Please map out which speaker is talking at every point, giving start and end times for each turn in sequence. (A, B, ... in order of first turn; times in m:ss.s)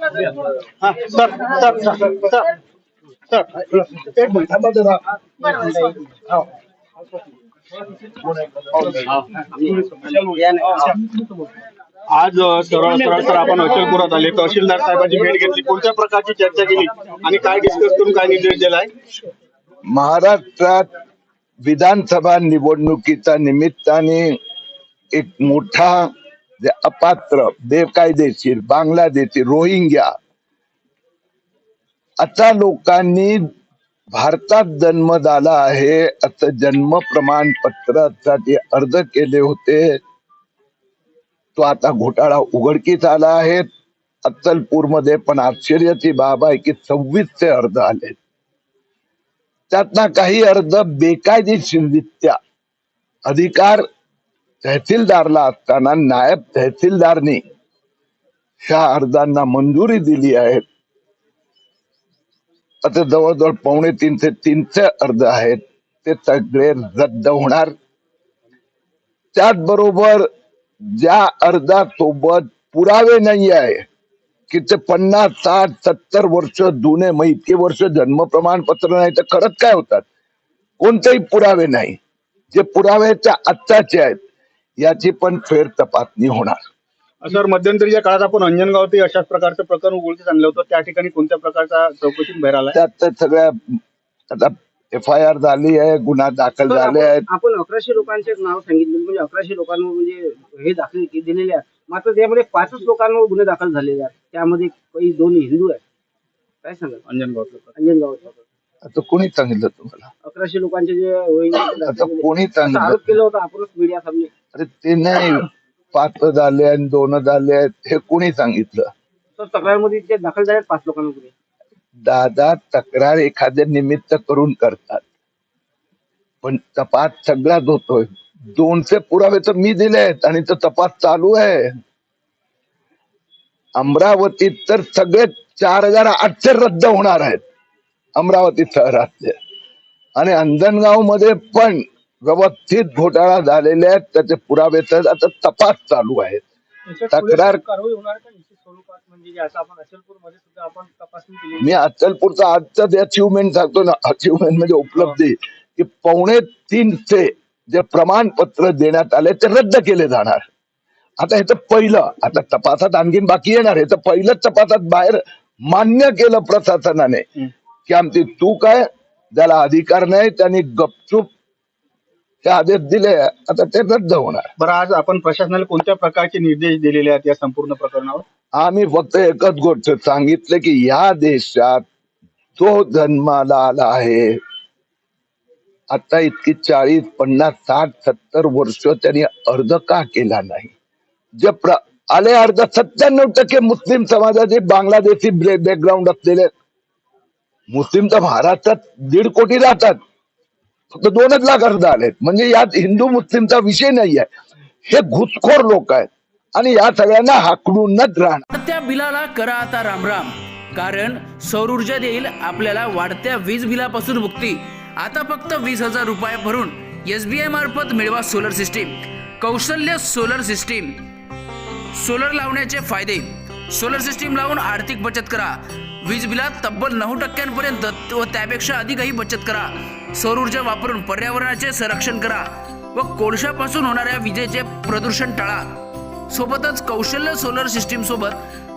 0:00.8-0:02.5 A
0:03.3-0:03.6 A
0:03.7-0:05.0 B
0:04.1-0:04.4 A
0:08.2-0:08.9 B
0:08.8-0:09.1 A
0:09.1-0:11.2 C
0:12.1-0:18.9 A
0:19.9-0:20.9 B
0:21.6-0:24.4 B
0:25.1-0:26.1 B
0:26.6-0:30.1 B
0:32.2-0:33.4 B
0:34.1-0:40.0 B
0:41.6-0:43.7 B
0:44.2-0:48.2 B
0:49.7-0:52.4 B
0:53.2-0:53.8 B
0:54.6-0:57.4 B
0:58.6-1:00.6 B
1:02.8-1:07.7 B
1:09.3-1:10.3 B
1:10.8-1:13.8 B
1:14.5-1:20.0 B
1:20.8-1:22.0 B
1:22.5-1:24.2 B
1:24.8-1:26.6 B
1:27.2-1:32.8 A
1:32.7-1:33.8 B
1:34.3-1:37.2 B
1:36.7-1:45.8 C
1:46.6-1:47.0 C
1:47.1-1:47.7 A
1:47.7-1:48.4 C
1:48.8-1:50.1 B
1:50.2-1:54.3 C
1:51.8-1:53.0 B
1:54.5-1:58.9 B
1:59.4-2:01.3 C
2:02.0-2:05.0 B
2:06.4-2:11.7 B
2:13.8-2:17.4 B
2:18.2-2:19.4 B
2:20.2-2:26.4 B
2:26.9-2:31.7 A
2:27.1-2:27.6 B
2:31.6-2:40.4 B
2:41.2-2:47.2 B
2:47.9-2:51.3 B
2:52.4-2:54.5 B
2:54.6-2:58.2 A
2:58.5-3:01.8 B
3:02.6-3:04.4 B
3:05.9-3:10.7 B
3:11.4-3:16.5 B
3:17.7-3:20.0 B
3:20.9-3:24.3 B
3:24.8-3:28.4 B
3:28.5-3:41.0 D
3:41.9-3:58.4 D